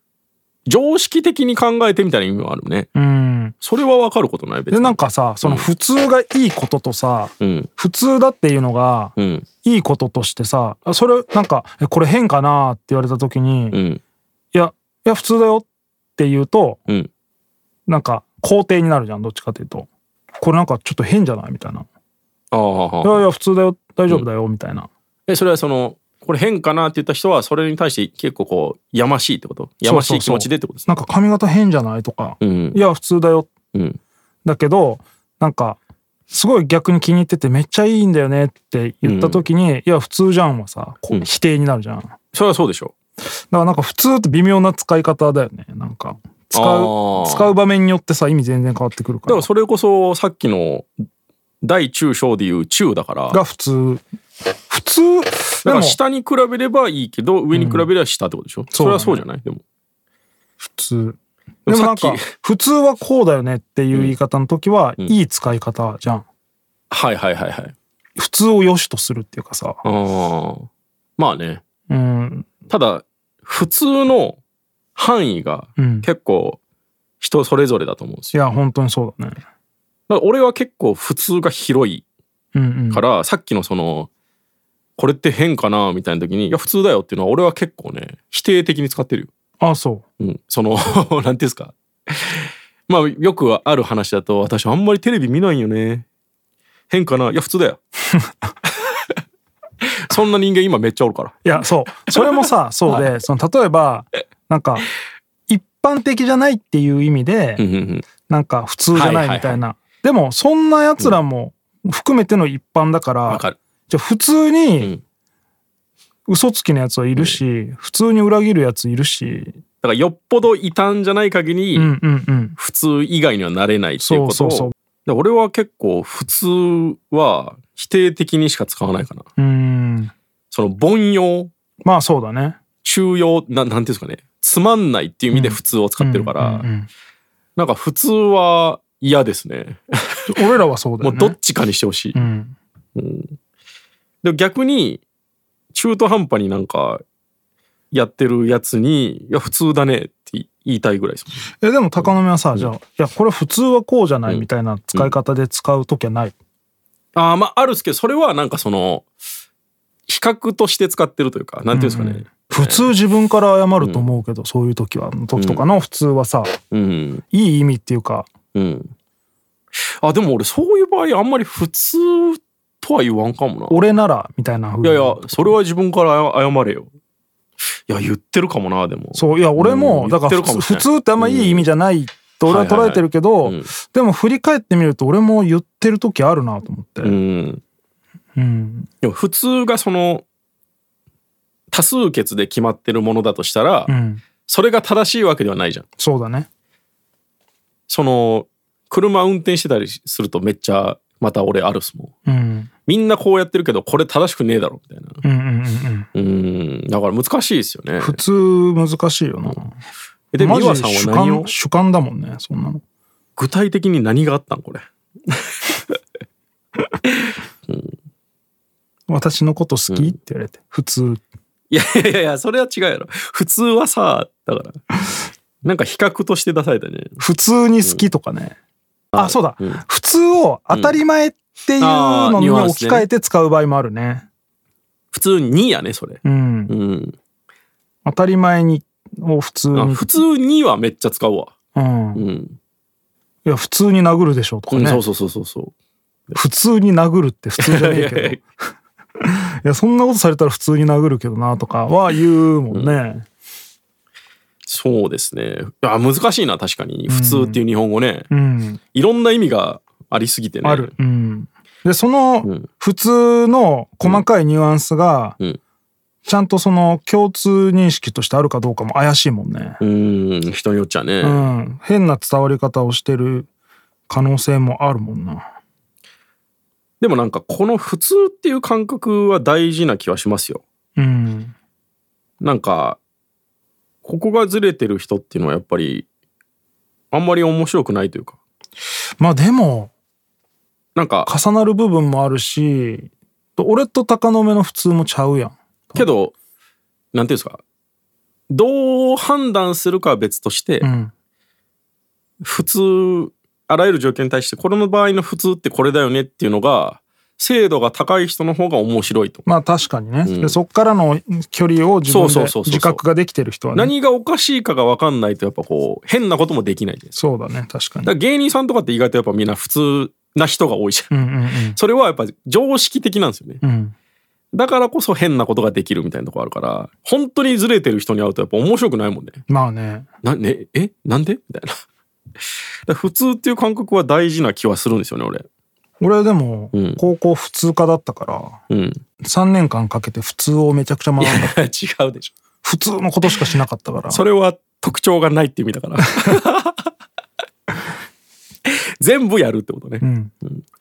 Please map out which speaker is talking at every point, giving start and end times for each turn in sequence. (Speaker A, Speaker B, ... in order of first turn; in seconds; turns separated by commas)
Speaker A: 0.7-2.9, Speaker B: 2.9-3.5, Speaker A: 3.6-5.7, Speaker B: 4.7-13.8, Speaker A: 7.4-7.7, Speaker A: 9.2-9.5, Speaker A: 13.7-14.0, Speaker B: 14.5-16.8, Speaker B: 17.9-21.9, Speaker A: 22.5-23.3, Speaker B: 23.0-24.9, Speaker A: 25.3-30.9, Speaker B: 29.8-33.5, Speaker A: 32.4-32.8, Speaker A: 33.7-34.0, Speaker B: 34.4-35.8, Speaker B: 36.3-42.1, Speaker A: 39.0-39.5, Speaker A: 42.3-42.9, Speaker B: 43.5-49.5, Speaker A: 46.5-47.5, Speaker A: 49.3-50.9, Speaker A: 51.6-53.4, Speaker B: 53.3-54.0, Speaker B: 54.7-56.0, Speaker A: 55.6-59.6, Speaker B: 57.5-57.9, Speaker B: 58.7-59.2, Speaker B: 60.6-66.2, Speaker A: 61.6-62.3, Speaker A: 66.9-67.7, Speaker B: 68.2-69.8, Speaker A: 69.8-71.6, Speaker B: 71.9-72.5, Speaker A: 72.7-74.4, Speaker A: 75.0-76.6, Speaker B: 75.8-76.1, Speaker A: 77.2-78.3, Speaker B: 78.3-79.4, Speaker A: 80.1-82.0, Speaker B: 82.5-83.0, Speaker A: 82.9-84.1, Speaker A: 85.0-89.3, Speaker B: 89.6-90.0, Speaker A: 90.2-96.0, Speaker A: 96.9-97.8, Speaker B: 98.1-98.5, Speaker A: 99.8-101.5, Speaker B: 101.4-104.9, Speaker A: 102.1-103.0, Speaker B: 105.5-107.6, Speaker A: 107.6-108.0, Speaker B: 108.2-114.9, Speaker A: 108.9-109.6, Speaker A: 113.3-113.6, Speaker B: 116.2-119.6, Speaker A: 117.1-117.4, Speaker A: 119.8-121.9, Speaker B: 121.7-122.6, Speaker A: 122.6-129.3, Speaker B: 124.0-124.7, Speaker B: 129.4-130.1, Speaker A: 130.5-131.5, Speaker B: 131.8-132.6, Speaker A: 132.8-136.7, Speaker B: 135.3-136.9, Speaker A: 137.6-140.3, Speaker B: 140.3-141.3, Speaker A: 141.0-142.2, Speaker B: 142.1-142.6, Speaker A: 142.9-143.3, Speaker A: 144.2-145.0, Speaker A: 145.7-147.0, Speaker A: 147.9-151.4, Speaker B: 151.6-156.3, Speaker A: 152.0-152.7, Speaker A: 154.2-155.1, Speaker A: 157.1-159.0, Speaker A: 160.1-162.9, Speaker B: 161.7-166.6, Speaker A: 163.8-164.1, Speaker A: 165.3-165.6, Speaker A: 166.7-167.2, Speaker B: 167.3-168.3, Speaker A: 168.5-168.9, Speaker A: 170.0-173.9, Speaker B: 173.7-175.6, Speaker A: 174.8-176.9, Speaker A: 177.9-181.7, Speaker B: 179.1-187.2, Speaker A: 182.4-183.7, Speaker A: 187.0-187.6, Speaker B: 188.3-188.9, Speaker A: 189.0-190.2, Speaker A: 191.7-193.9, Speaker B: 193.9-194.2, Speaker A: 194.5-195.8, Speaker B: 196.0-196.5, Speaker A: 197.9-202.1, Speaker B: 202.2-202.7, Speaker A: 202.9-205.2, Speaker B: 205.2-206.1, Speaker A: 206.1-208.2, Speaker B: 208.0-209.8, Speaker A: 210.3-211.5, Speaker B: 210.4-212.8, Speaker A: 213.4-216.0, Speaker A: 217.3-217.9, Speaker B: 219.1-221.2, Speaker A: 221.7-224.8, Speaker A: 225.6-227.2, Speaker B: 227.2-228.6, Speaker A: 229.1-229.8, Speaker B: 229.1-234.3, Speaker A: 230.7-231.0, Speaker A: 231.8-233.1, Speaker A: 235.1-237.2, Speaker B: 236.2-236.7, Speaker B: 238.0-240.1, Speaker A: 239.7-241.5, Speaker B: 241.7-242.2, Speaker A: 242.1-242.6, Speaker B: 243.4-245.0, Speaker A: 244.7-245.7, Speaker B: 246.3-248.4, Speaker A: 247.6-248.4, Speaker B: 249.2-253.2, Speaker A: 252.7-253.0, Speaker A: 254.7-258.3, Speaker B: 257.1-257.6, Speaker B: 258.3-258.8, Speaker A: 258.9-260.9, Speaker B: 260.6-265.4, Speaker B: 266.2-269.8, Speaker A: 269.8-271.5, Speaker B: 271.2-273.5, Speaker B: 274.1-275.5, Speaker A: 277.0-280.6, Speaker B: 280.9-281.5, Speaker A: 282.4-283.0, Speaker A: 284.0-286.1, Speaker A: 287.1-288.4, Speaker B: 289.2-289.9, Speaker A: 290.9-291.3, Speaker B: 291.2-296.1, Speaker A: 295.9-296.3, Speaker A: 297.1-297.6, Speaker A: 298.5-300.9, Speaker B: 300.8-301.1, Speaker A: 302.4-309.4, Speaker B: 309.4-313.9, Speaker A: 310.2-310.6, Speaker A: 312.1-313.0, Speaker A: 313.7-317.1, Speaker B: 317.1-318.1, Speaker A: 318.0-321.1, Speaker B: 321.1-321.8, Speaker A: 321.7-323.6, Speaker B: 323.6-323.9, Speaker A: 324.5-329.4, Speaker B: 329.5-330.1, Speaker A: 330.2-331.8, Speaker A: 332.9-335.4, Speaker B: 336.0-338.6, Speaker A: 336.7-337.0, Speaker A: 338.7-339.0, Speaker B: 339.2-341.6, Speaker A: 341.2-342.3, Speaker B: 342.6-344.2, Speaker A: 344.1-346.8, Speaker A: 348.6-350.6, Speaker B: 350.0-350.3